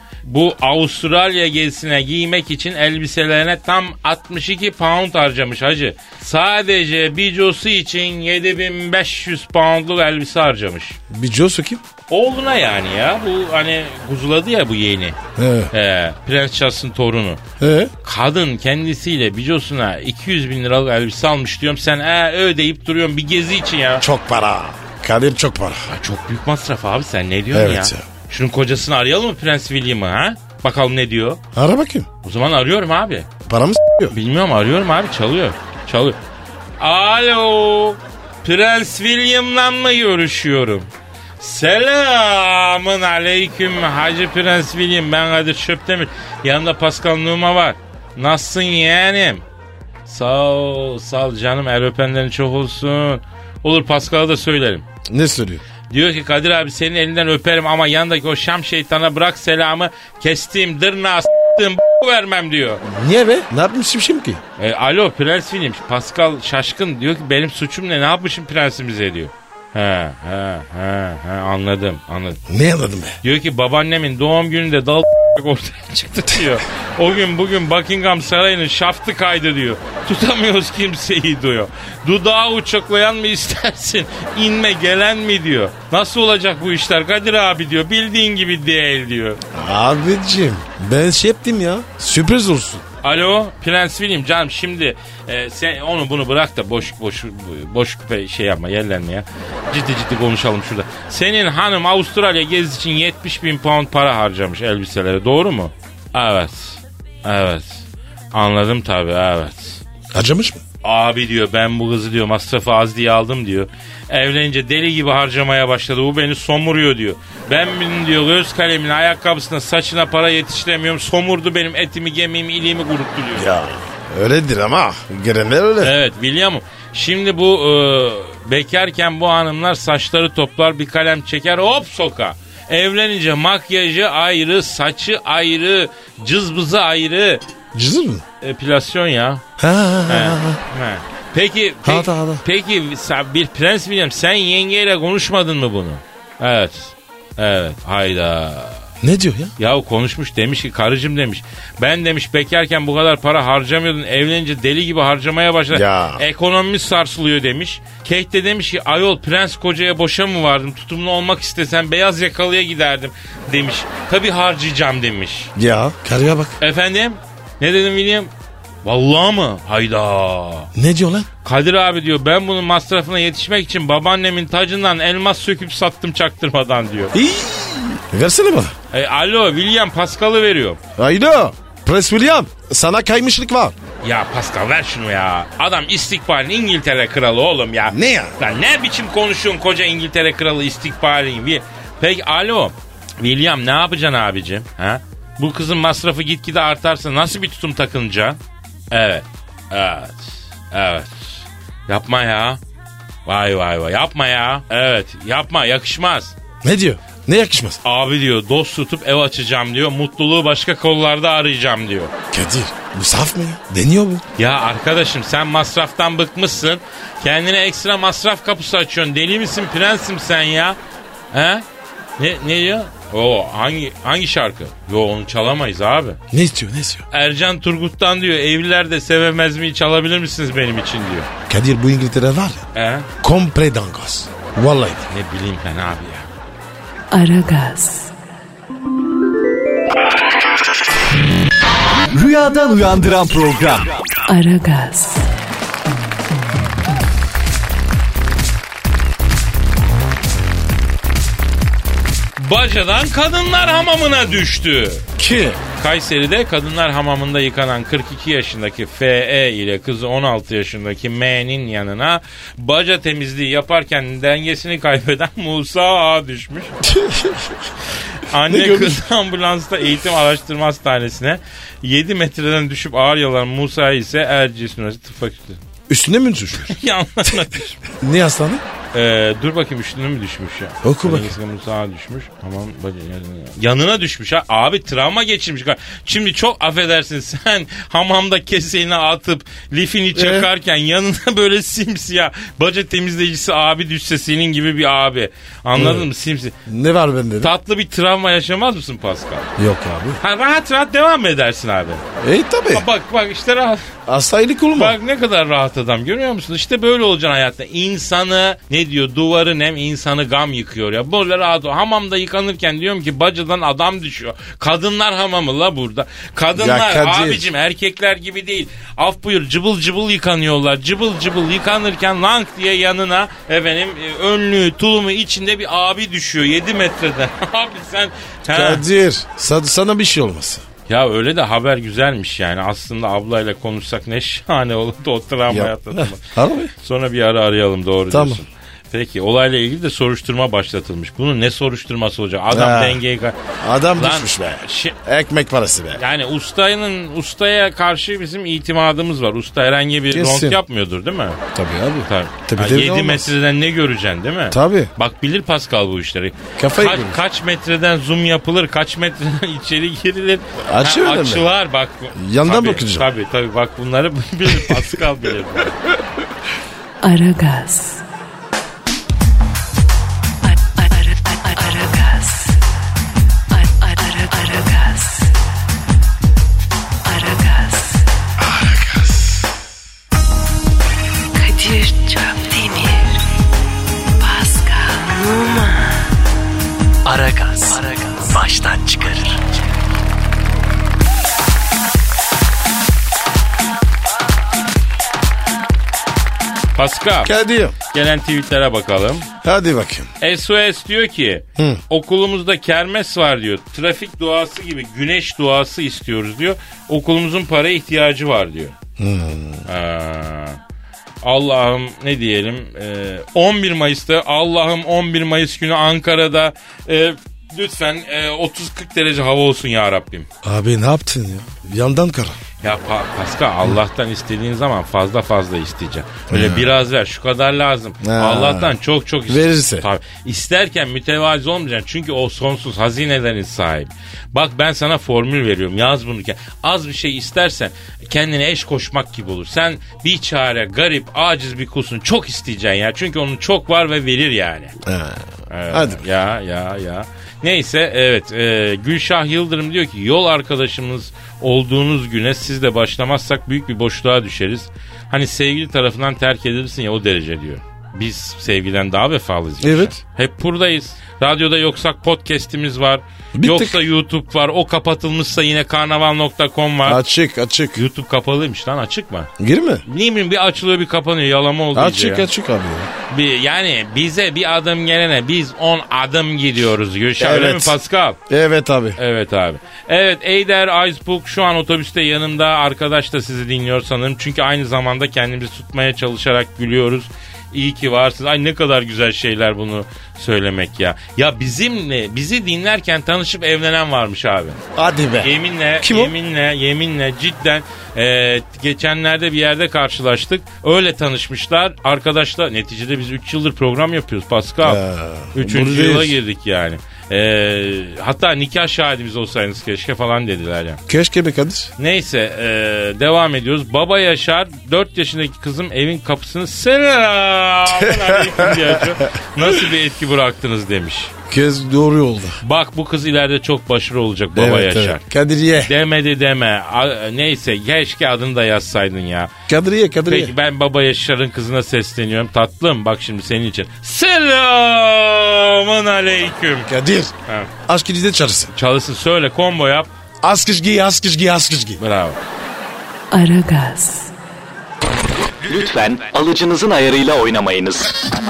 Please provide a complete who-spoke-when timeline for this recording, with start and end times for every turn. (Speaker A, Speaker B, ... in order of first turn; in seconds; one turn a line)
Speaker A: 0.2-11.0
Speaker B: 11.1-11.8
Speaker A: 12.1-15.2
Speaker B: 15.4-15.7
Speaker A: 15.7-17.4
Speaker B: 17.6-17.9
Speaker A: 18.0-24.1
Speaker B: 24.0-25.9
Speaker A: 25.9-31.4
Speaker B: 27.5-28.1
Speaker B: 31.5-32.1
Speaker A: 32.2-33.3
Speaker B: 33.5-34.1
Speaker A: 34.1-36.2
Speaker A: 36.8-40.9
Speaker A: 41.4-49.4
Speaker A: 50.1-54.9
Speaker B: 55.1-55.6
Speaker A: 55.9-62.8
Speaker B: 62.8-64.4
Speaker A: 64.6-72.4
Speaker B: 72.5-73.2
Speaker A: 73.2-89.4
Speaker B: 89.5-92.8
Speaker A: 93.0-109.8
Speaker B: 110.1-110.6
Speaker A: 110.8-123.5
Speaker B: 123.3-125.9
Speaker A: 125.8-137.4
Speaker B: 137.7-138.2
Speaker A: 138.4-139.4
Speaker B: 139.6-140.6
Speaker A: 140.1-148.8
Speaker B: 141.8-142.4
Speaker B: 149.0-149.5
Speaker A: 149.6-165.5
Speaker B: 155.7-156.2
Speaker B: 165.6-166.6
Speaker A: 166.6-168.3
Speaker A: 168.8-170.7
Speaker B: 170.8-171.3
Speaker A: 171.4-177.1
Speaker B: 177.1-178.8
Speaker A: 178.9-180.8
Speaker B: 181.0-183.8
Speaker A: 184.0-198.4
Speaker B: 187.9-188.4
Speaker A: 198.9-202.6
Speaker A: 203.3-206.3
Speaker B: 206.6-207.8
Speaker A: 207.8-212.1
Speaker B: 212.3-214.2
Speaker A: 214.4-220.8
Speaker A: 221.3-221.7
Speaker A: 222.2-226.2
Speaker B: 226.3-227.1
Speaker A: 227.1-231.3
Speaker B: 231.5-232.7
Speaker A: 232.7-233.1
Speaker B: 233.2-235.1
Speaker A: 235.1-236.3
Speaker C: 237.1-238.1
Speaker D: 242.1-244.0
Speaker C: 244.3-245.3
Speaker A: 252.4-266.8
Speaker B: 255.2-255.6
Speaker B: 266.8-267.6
Speaker A: 268.0-275.6
Speaker B: 268.5-269.0
Speaker B: 275.9-278.6
Speaker A: 276.6-277.8
Speaker A: 278.9-296.6
Speaker B: 280.8-281.4
Speaker B: 290.1-290.5
Speaker B: 295.8-296.1
Speaker B: 296.7-297.5
Speaker A: 297.4-299.5
Speaker B: 299.6-300.2
Speaker A: 300.2-302.0
Speaker B: 302.2-302.9
Speaker A: 302.7-303.9
Speaker B: 304.1-305.0
Speaker A: 304.7-328.8
Speaker B: 316.6-317.5
Speaker B: 328.5-330.7
Speaker A: 330.9-343.4
Speaker B: 335.5-336.7
Speaker B: 338.1-338.4
Speaker B: 342.5-343.0
Speaker B: 343.6-346.0
Speaker A: 343.9-344.9
Speaker A: 346.0-351.4
Speaker B: 350.1-350.6
Speaker B: 351.5-353.3
Speaker A: 352.1-365.8
Speaker B: 354.5-354.9
Speaker B: 356.6-357.2
Speaker B: 360.6-361.5
Speaker B: 362.1-363.1
Speaker B: 364.6-364.8
Speaker C: 367.0-368.0
Speaker C: 370.4-372.6
Speaker C: 373.5-375.3
Speaker C: 377.0-378.1
Speaker B: 378.4-379.2
Speaker C: 381.4-383.2
Speaker C: 384.2-386.1
Speaker C: 387.1-389.4
Speaker D: 387.1-387.4
Speaker D: 388.1-389.3
Speaker A: 396.8-397.3
Speaker B: 397.2-397.8
Speaker A: 397.9-399.3
Speaker B: 399.4-400.1
Speaker A: 400.2-408.8
Speaker B: 409.0-409.7
Speaker A: 409.7-410.6
Speaker A: 411.2-420.3
Speaker B: 420.4-422.4
Speaker A: 422.6-444.8
Speaker B: 426.3-426.7
Speaker B: 428.0-428.8
Speaker B: 429.3-429.9
Speaker B: 444.8-446.0
Speaker A: 445.5-467.0
Speaker B: 459.6-460.0
Speaker B: 463.4-463.8
Speaker B: 466.9-467.8
Speaker A: 467.8-469.3
Speaker B: 469.4-469.8
Speaker A: 469.9-472.3
Speaker B: 471.7-472.9
Speaker A: 473.1-478.2
Speaker B: 477.2-477.8
Speaker B: 478.3-479.0
Speaker A: 479.0-494.6
Speaker B: 494.8-496.1
Speaker A: 495.2-504.8
Speaker B: 504.6-506.2
Speaker A: 505.4-510.8
Speaker B: 510.9-511.7
Speaker A: 511.8-521.1
Speaker B: 517.7-519.7
Speaker B: 521.3-522.4
Speaker A: 522.4-525.0
Speaker B: 524.4-525.7
Speaker A: 525.5-529.3
Speaker B: 529.5-530.3
Speaker A: 530.1-536.7
Speaker B: 536.7-537.1
Speaker A: 537.3-537.5
Speaker B: 537.7-538.5
Speaker A: 538.5-539.9
Speaker B: 540.2-541.8
Speaker A: 541.8-542.2
Speaker C: 543.1-544.1
Speaker E: 545.5-547.9